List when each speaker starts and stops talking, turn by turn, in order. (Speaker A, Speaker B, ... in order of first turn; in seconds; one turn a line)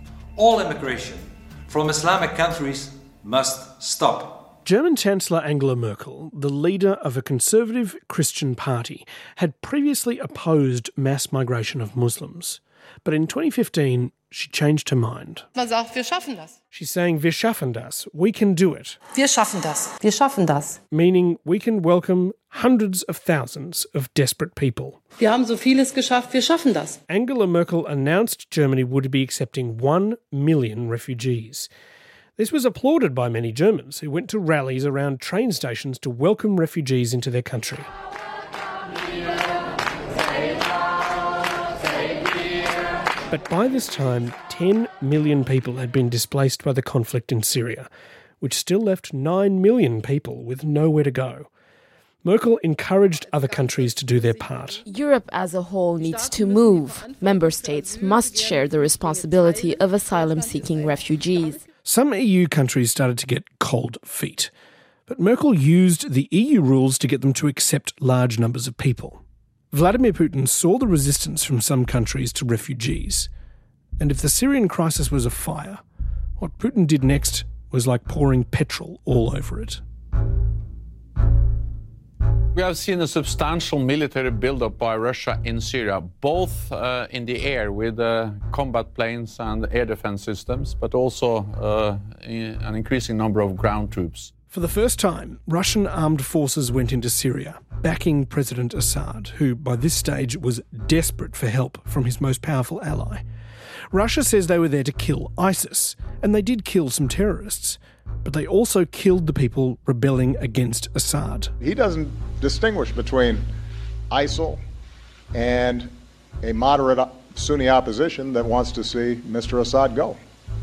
Speaker A: 0.4-4.5
Speaker B: 4.7-15.5
Speaker C: 15.6-16.5
Speaker B: 16.7-19.0
Speaker C: 19.2-20.8
Speaker B: 20.9-25.0
Speaker C: 25.2-27.0
Speaker B: 27.1-31.7
Speaker B: 32.4-37.9
Speaker B: 43.3-47.9
Speaker B: 48.4-51.5
Speaker B: 52.2-54.8
Speaker C: 53.4-54.8
Speaker D: 54.9-61.6
Speaker C: 56.0-61.6
Speaker B: 61.9-64.5
Speaker B: 65.1-73.3
Speaker B: 74.0-75.8
Speaker B: 76.4-79.8
Speaker E: 82.6-94.3
Speaker B: 94.5-103.2
Speaker B: 103.9-111.5
Speaker F: 111.6-113.5
Speaker F: 114.1-114.6
Speaker F: 115.3-120.2